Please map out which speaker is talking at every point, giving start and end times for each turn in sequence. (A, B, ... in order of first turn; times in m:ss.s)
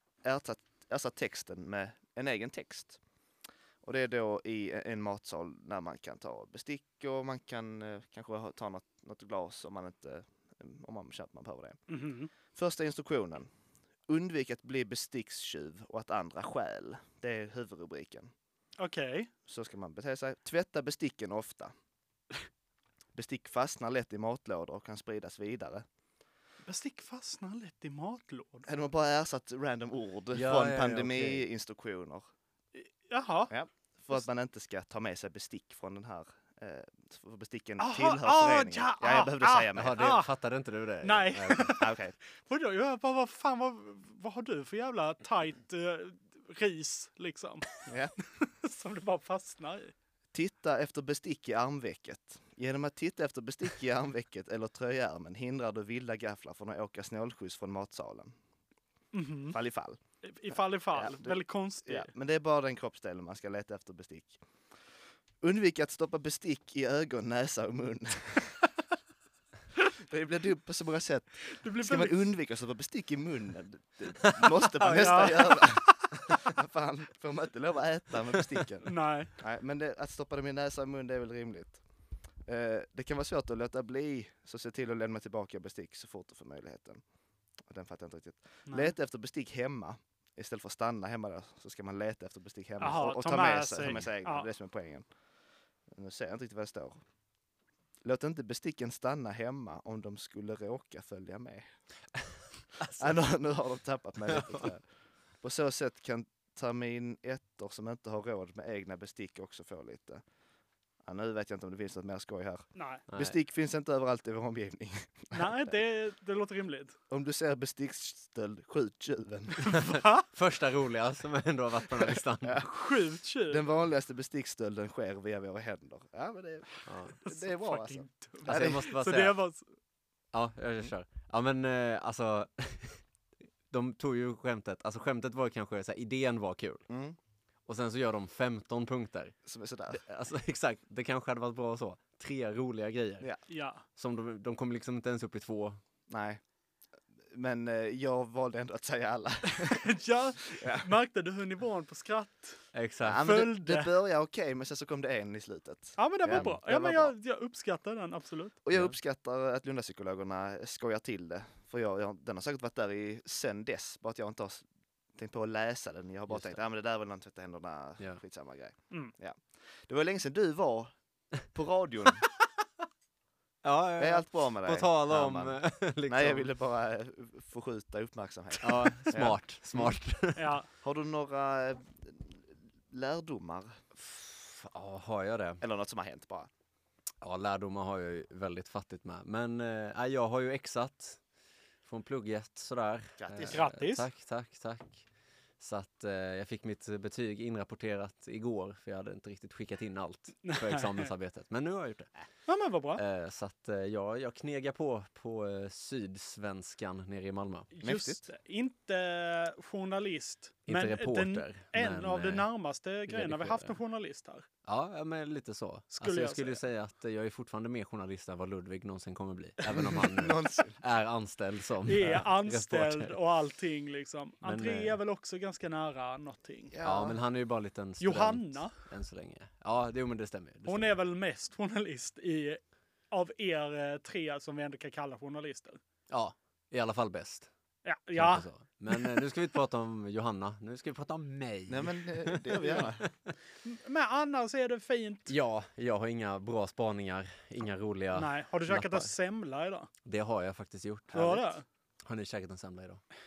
0:00.2-0:03.0 A
0:03.8-0:11.8 A
0:11.9-0:12.3 B
0:12.5-0:13.5 A
0:14.1-0:18.3 A
0:18.8-0:19.3 B
0:19.5-0:21.8 A
0:23.2-0:25.8 A
0:26.7-0:28.7 B
0:28.6-0:32.3 A
0:30.3-0:31.5 C
0:32.8-0:33.5 B
0:33.5-0:40.0 A
0:37.8-0:40.3 B
0:39.8-0:41.8 C
0:41.0-0:47.6 B
0:41.8-0:42.2 A
0:47.9-0:48.1 A
0:48.4-0:49.9 B
0:50.3-0:58.4 A
0:59.1-0:59.6 B
0:59.5-1:00.0 A
1:00.2-1:02.1 B
1:00.9-1:04.4 A
1:05.4-1:08.6 A
1:10.0-1:21.8 A
1:11.5-1:12.3 B
1:14.2-1:15.3 C
1:14.8-1:15.9 B
1:18.8-1:19.3 B
1:22.5-1:27.0 A
1:27.7-1:35.1 A
1:28.7-1:28.9 B
1:32.8-1:34.5 B
1:35.9-1:37.0 A
1:38.0-1:41.7 A
1:42.8-1:43.1 C
1:43.0-1:44.9 A
1:44.3-1:44.7 C
1:45.4-1:50.2 A
1:51.0-1:55.7 A
1:52.8-1:53.0 B
1:55.3-1:57.0 B
1:57.1-1:59.7 A
1:59.6-2:00.3 B
2:00.3-2:02.6 C
2:02.4-2:02.7 A
2:02.7-2:03.6 B
2:03.5-2:08.8 A
2:06.9-2:07.1 C
2:07.2-2:09.7 B
2:08.4-2:09.4 C
2:10.3-2:13.0 C
2:13.7-2:16.9 C
2:16.9-2:17.2 A
2:17.7-2:19.4 C
2:19.5-2:20.0 A
2:19.9-2:23.3 C
2:23.5-2:23.8 B
2:23.9-2:25.8 C
2:26.1-2:26.4 A
2:27.3-2:29.9 A
2:29.5-2:32.6 B
2:30.6-2:30.9 A
2:32.7-2:33.3 C
2:33.0-2:37.1 A
2:33.2-2:33.9 B
2:36.0-2:38.6 B
2:38.6-2:51.0 A
2:46.3-2:46.6 C
2:51.5-2:52.3 A
2:53.6-2:56.5 C
2:54.0-3:00.0 A
2:58.6-3:00.5 C
3:00.4-3:00.7 B
3:00.8-3:03.8 A
3:04.0-3:05.6 C
3:05.6-3:06.5 A
3:07.2-3:11.2 C
3:11.8-3:15.1 C
3:13.2-3:13.7 A
3:13.5-3:14.1 B
3:15.6-3:22.1 C
3:20.4-3:21.1 B
3:22.5-3:23.0 B
3:23.0-3:27.7 C
3:27.7-3:34.4 B
3:27.8-3:28.2 A
3:30.7-3:32.5 C
3:33.1-3:33.8 C
3:34.6-3:43.2 C
3:35.9-3:36.6 B
3:39.7-3:40.8 A
3:41.9-3:46.7 B
3:44.4-3:45.0 C
3:46.7-3:47.2 A
3:46.8-3:51.0 C
3:48.0-3:48.7 B
3:50.7-3:55.8 B
3:56.1-3:57.5 C
3:57.8-3:59.2 B
3:58.2-4:03.1 C
4:01.7-4:03.1 A
4:03.6-4:05.3 B
4:05.3-4:09.1 C
4:08.2-4:09.9 B
4:10.0-4:11.5 C
4:11.1-4:11.6 B
4:12.0-4:13.0 C